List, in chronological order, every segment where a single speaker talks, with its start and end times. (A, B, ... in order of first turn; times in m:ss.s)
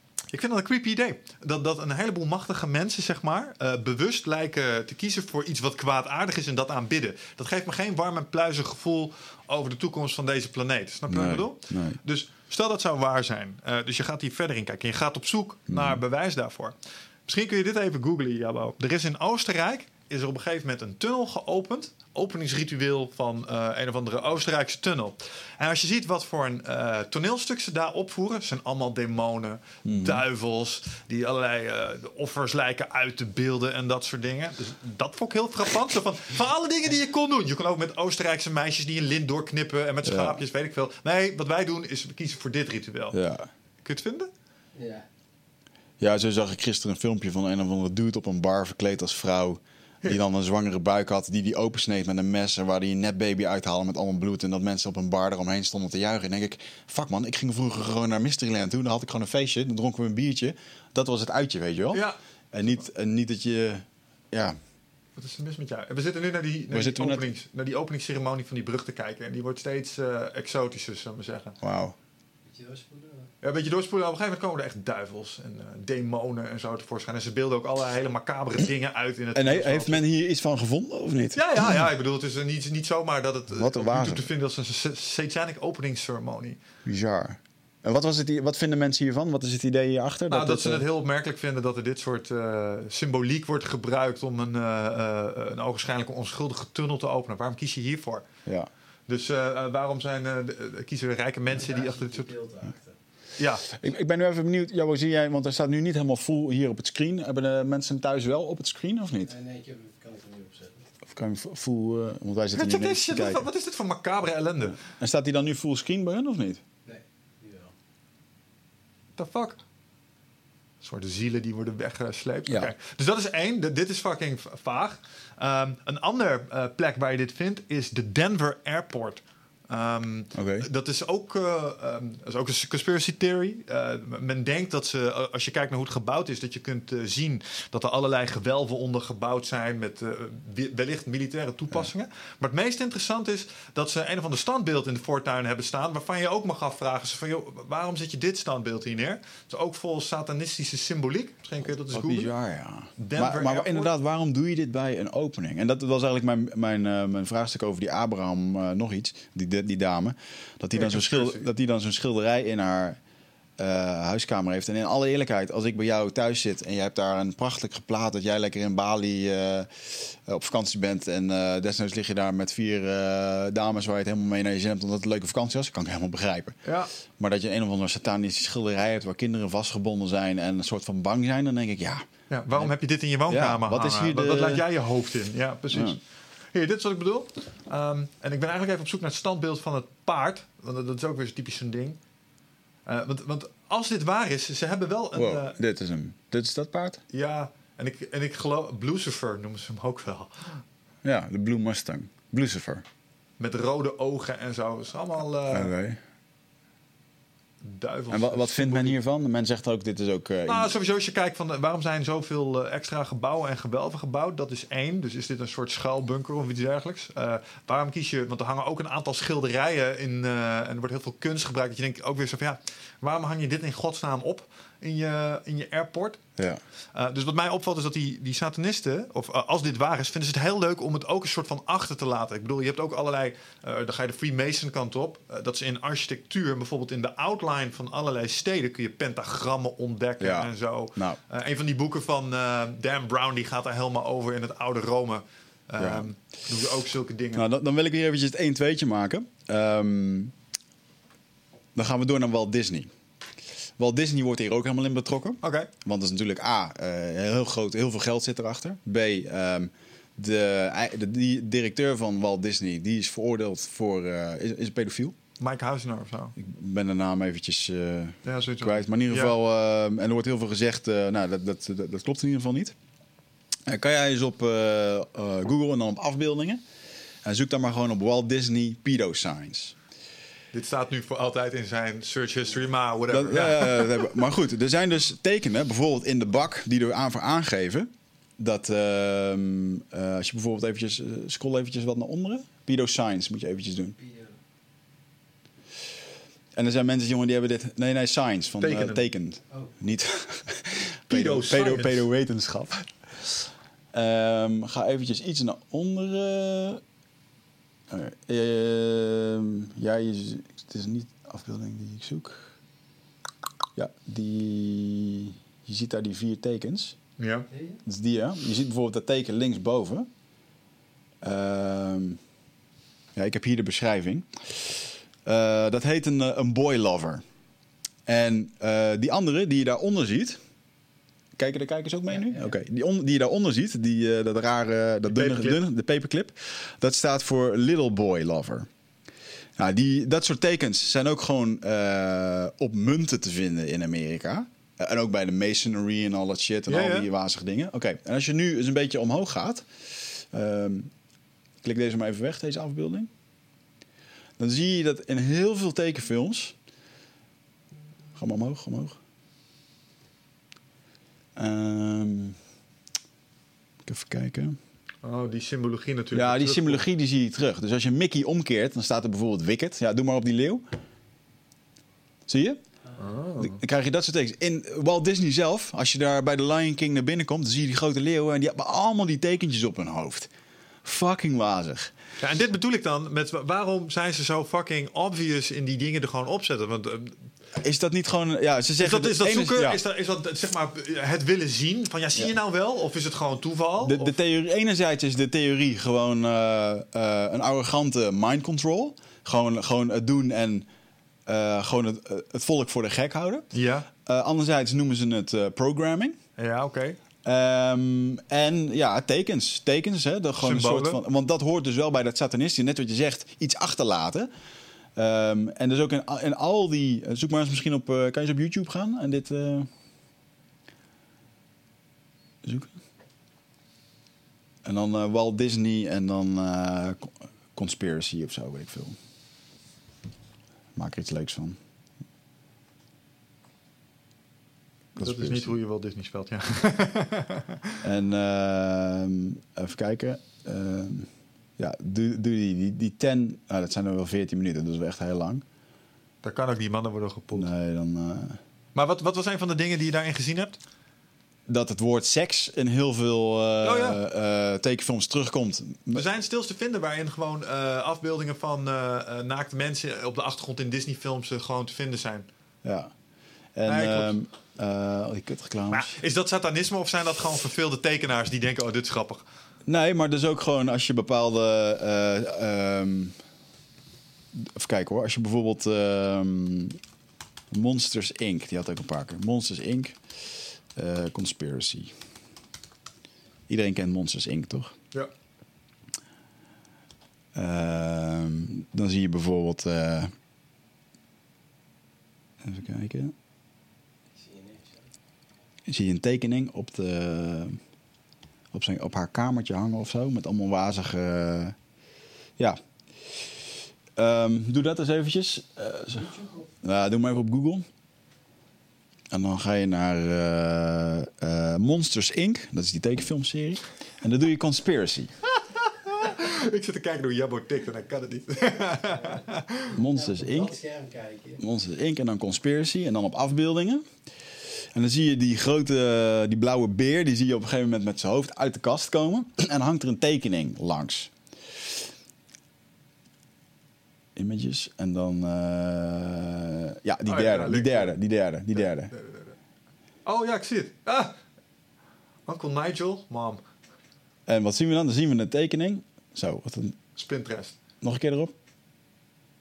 0:00.3-0:43.2 A
0:11.1-0:12.0 B
0:15.7-0:16.0 B
0:29.8-0:30.2 B
0:40.0-0:40.4 B
0:43.1-0:43.5 B
0:43.8-0:44.3 A
0:44.8-0:45.0 C
0:46.0-1:04.6 B
1:01.9-1:02.2 A
1:05.2-1:11.6 A
1:06.7-1:07.3 B
1:11.6-1:12.0 B
1:12.5-1:13.3 C
1:13.4-1:20.0 A
1:19.4-1:21.8 B
1:21.4-1:26.6 A
1:23.5-1:24.3 B
1:26.9-1:30.9 B
1:30.3-1:38.2 A
1:39.1-1:42.3 A
1:41.6-1:42.9 C
1:43.4-1:43.6 A
1:43.7-1:49.3 B
1:49.2-1:50.9 C
1:51.1-1:53.5 B
1:52.6-1:54.8 A
1:54.8-1:56.6 B
1:56.9-1:57.7 C
1:59.2-1:59.6 A
2:00.8-2:32.3 A
2:10.3-2:10.7 B
2:31.9-2:43.0 B
2:33.0-2:33.9 A
2:40.7-2:41.5 A
2:43.6-2:56.6 B
2:56.6-2:56.9 A
2:57.2-3:02.7 B
3:02.3-3:06.0 A
3:03.3-3:04.6 B
3:05.7-3:06.0 B
3:06.5-3:12.0 A
3:12.9-3:15.6 A
3:15.2-3:17.0 B
3:17.1-3:20.6 A
3:21.0-3:22.8 B
3:23.4-3:25.7 A
3:25.5-3:26.0 B
3:27.6-3:29.0 A
3:28.1-3:30.7 B
3:30.5-3:46.2 A
3:46.9-4:07.4 A
4:00.2-4:01.2 B
4:05.8-4:06.1 B
4:07.3-4:10.3 B
4:11.8-4:12.9 B
4:13.8-4:25.2 B
4:15.4-4:15.7 A
4:25.4-4:26.4 A
4:26.4-4:32.8 B
4:28.2-4:29.4 A
4:33.7-4:36.6 B
4:37.2-4:39.8 B
4:40.5-4:44.1 A
4:43.1-4:54.0 B
4:54.0-4:54.4 C
4:56.6-5:02.9 B
4:58.6-4:59.0 A
5:01.1-5:02.1 A
5:03.9-5:06.8 B
5:07.9-5:12.5 B
5:13.8-5:17.0 B
5:17.2-5:17.5 A
5:17.5-5:17.8 C
5:17.9-5:20.1 B
5:21.2-5:22.2 B
5:23.2-5:27.2 B
5:28.1-5:30.4 B
5:31.4-5:38.7 B
5:35.1-5:35.6 A
5:39.6-5:50.9 B
5:46.7-5:47.1 A
5:51.6-5:53.1 B
5:54.4-5:56.6 B
5:58.2-5:59.0 B
6:01.4-6:02.4 B
6:03.9-6:04.6 B
6:05.0-6:06.8 A
6:06.1-6:10.6 B
6:12.3-6:12.6 B
6:13.0-6:13.6 A
6:13.4-6:20.3 B
6:20.8-6:21.9 B
6:22.2-6:27.2 A
6:27.6-6:29.8 B
6:28.8-6:34.2 A
6:33.8-6:40.7 B
6:41.3-6:43.5 B
6:43.5-6:43.9 A
6:44.0-6:46.2 B
6:46.4-6:47.0 A
6:47.2-6:54.3 B
6:50.4-6:51.0 A
6:55.0-6:59.7 B
7:02.4-7:02.7 B
7:04.6-7:09.0 B
7:10.8-7:11.6 B
7:15.0-7:15.5 B
7:15.0-7:17.8 A
7:17.8-7:25.4 B
7:26.2-7:27.5 A
7:27.3-7:28.4 B
7:28.8-7:30.6 A
7:31.5-7:36.1 B
7:33.6-7:34.0 A
7:35.9-7:42.3 A
7:42.6-7:42.9 B
7:43.6-7:45.9 B
7:43.7-7:44.2 A
7:45.7-7:49.2 A
7:49.7-7:53.2 B
7:54.4-7:56.8 B
7:57.5-8:00.0 B
8:00.8-8:02.0 B
8:03.5-8:04.7 B
8:07.4-8:10.1 B
8:12.4-8:13.1 B
8:14.2-8:14.9 C
8:15.7-8:17.6 B
8:18.5-8:21.6 B
8:22.4-8:23.4 B
8:24.0-8:27.7 B
8:29.1-8:35.1 B
8:35.5-8:39.8 A
8:39.7-8:40.6 B
8:39.9-8:41.4 C
8:41.4-8:43.8 B
8:44.7-8:51.1 B
8:54.2-8:58.9 B
8:57.1-8:58.0 A
8:58.6-8:59.3 A
9:00.0-9:01.2 A
9:02.3-9:03.4 A
9:04.3-9:06.8 B
9:07.0-9:07.6 A
9:07.8-9:08.3 B